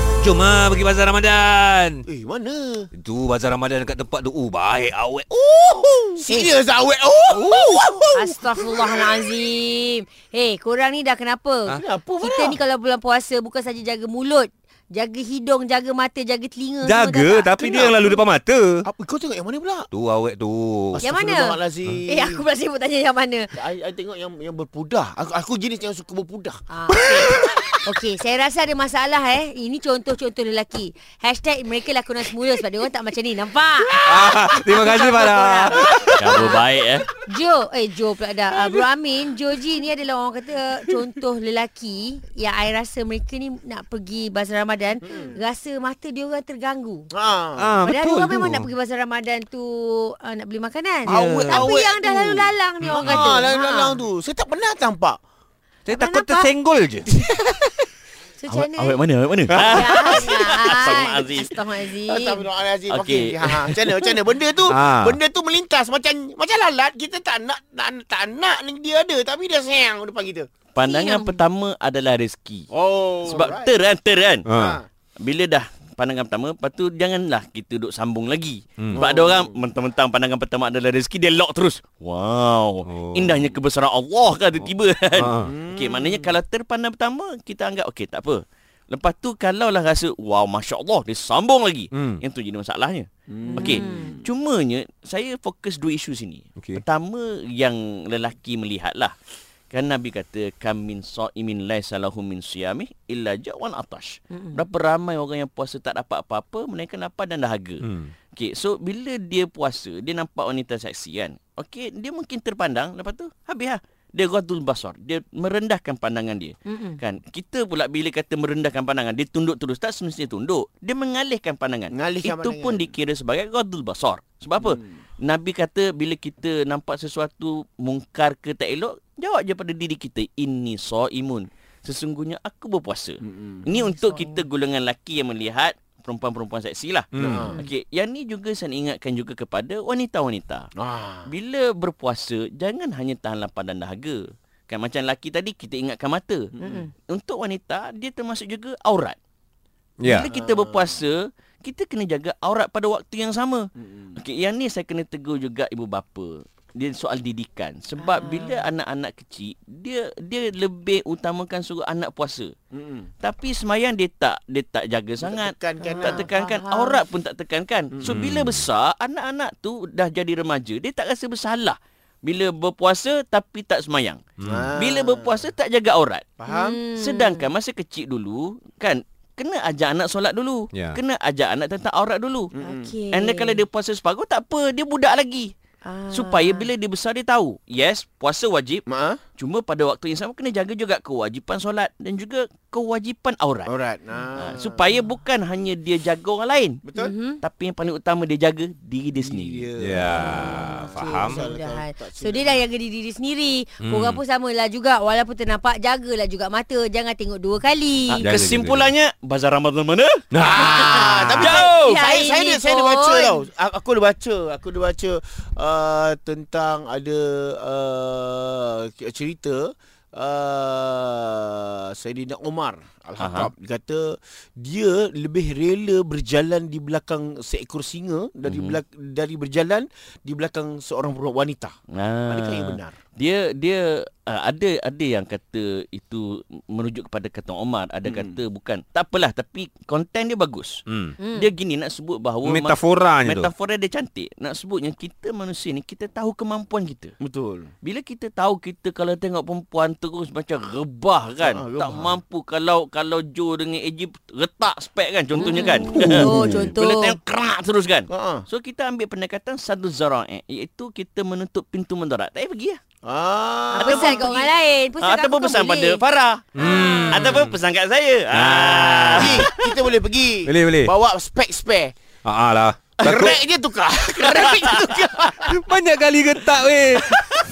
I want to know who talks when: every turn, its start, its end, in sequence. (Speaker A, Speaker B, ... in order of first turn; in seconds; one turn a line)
Speaker A: 0.2-2.0
Speaker B: 2.1-2.9
Speaker A: 2.9-6.4
Speaker B: 6.1-9.0
Speaker A: 7.3-7.9
Speaker C: 8.1-18.2
Speaker B: 11.8-12.6
Speaker A: 16.8-18.9
Speaker B: 18.8-19.9
Speaker A: 19.9-21.0
Speaker B: 20.9-22.4
Speaker C: 21.0-23.5
Speaker B: 23.5-26.6
Speaker C: 26.7-36.6
Speaker A: 26.9-27.3
Speaker A: 34.0-36.3
Speaker D: 36.1-37.0
Speaker C: 37.2-47.1
Speaker B: 45.1-45.3
Speaker B: 47.1-47.8
Speaker A: 47.6-48.7
Speaker C: 47.8-54.0
Speaker B: 51.1-55.2
Speaker A: 51.1-51.7
Speaker A: 52.9-53.3
Speaker A: 55.9-57.2
Speaker C: 55.9-56.5
Speaker C: 58.4-59.0
Speaker D: 58.5-61.5
Speaker C: 59.5-62.5
Speaker A: 59.5-59.8
Speaker B: 62.0-70.5
Speaker D: 62.9-64.1
Speaker A: 64.7-65.2
Speaker D: 70.7-72.7
Speaker C: 70.8-71.4
Speaker B: 72.7-73.7
Speaker D: 73.2-74.5
Speaker A: 74.5-74.8
Speaker B: 74.5-74.8
Speaker D: 75.2-99.1
Speaker A: 78.8-79.1
Speaker B: 78.9-79.6
Speaker A: 82.9-83.5
Speaker A: 84.6-85.5
Speaker B: 85.4-86.3
Speaker A: 91.9-92.2
Speaker B: 93.3-94.2
Speaker C: 93.5-94.1
Speaker D: 99.7-107.8
Speaker C: 104.3-104.6
Speaker A: 107.8-108.1
Speaker D: 108.4-140.7
Speaker C: 116.7-117.0
Speaker B: 121.9-122.9
Speaker B: 124.6-125.0
Speaker B: 133.2-133.7
Speaker C: 133.7-134.4
Speaker A: 137.1-137.5
Speaker B: 137.2-137.6
Speaker B: 140.8-141.3
Speaker D: 141.3-146.5
Speaker B: 146.6-146.8
Speaker C: 146.6-146.9
Speaker D: 147.1-149.2
Speaker A: 150.0-150.3
Speaker D: 150.1-162.5
Speaker B: 150.3-151.0
Speaker B: 153.8-154.2
Speaker C: 158.0-158.6
Speaker B: 162.7-163.1
Speaker D: 163.2-174.2
Speaker B: 165.2-166.3
Speaker C: 165.8-167.0
Speaker A: 168.1-168.7
Speaker A: 174.4-174.7
Speaker B: 174.4-175.5
Speaker D: 174.7-176.3
Speaker B: 176.4-176.8
Speaker C: 176.5-177.5
Speaker D: 176.9-182.5
Speaker A: 180.7-181.0
Speaker B: 182.5-182.9
Speaker C: 182.6-183.6
Speaker D: 183.1-185.5
Speaker C: 185.8-186.7
Speaker D: 186.1-188.8
Speaker B: 188.9-189.2
Speaker D: 189.4-193.7
Speaker B: 193.6-195.0
Speaker D: 194.4-196.8
Speaker B: 196.8-197.1
Speaker C: 196.9-197.4
Speaker D: 197.4-199.7
Speaker B: 199.1-202.6
Speaker A: 199.8-201.4
Speaker C: 200.1-208.2
Speaker A: 203.8-204.2
Speaker D: 208.1-210.2
Speaker A: 208.2-208.9
Speaker A: 210.3-211.5
Speaker B: 210.4-231.7
Speaker C: 210.5-213.4
Speaker D: 211.3-212.0
Speaker D: 223.2-223.5
Speaker D: 228.4-228.8
Speaker D: 231.9-240.8
Speaker B: 232.2-233.0
Speaker B: 238.0-238.4
Speaker A: 240.9-241.1
Speaker C: 241.2-241.5
Speaker D: 241.3-247.1
Speaker A: 242.4-243.5
Speaker B: 247.2-247.7
Speaker D: 247.8-262.8
Speaker B: 251.4-252.2
Speaker C: 255.4-257.2
Speaker B: 255.4-256.5
Speaker A: 256.0-256.7
Speaker B: 258.1-258.4
Speaker B: 263.0-264.3
Speaker C: 263.7-266.0
Speaker D: 263.8-266.6
Speaker A: 266.6-267.5
Speaker C: 266.6-267.3
Speaker D: 267.1-269.7
Speaker A: 268.3-269.5
Speaker B: 269.1-271.9
Speaker A: 270.4-270.9
Speaker A: 272.2-273.4
Speaker B: 273.0-275.5
Speaker D: 274.2-275.0
Speaker A: 275.4-277.2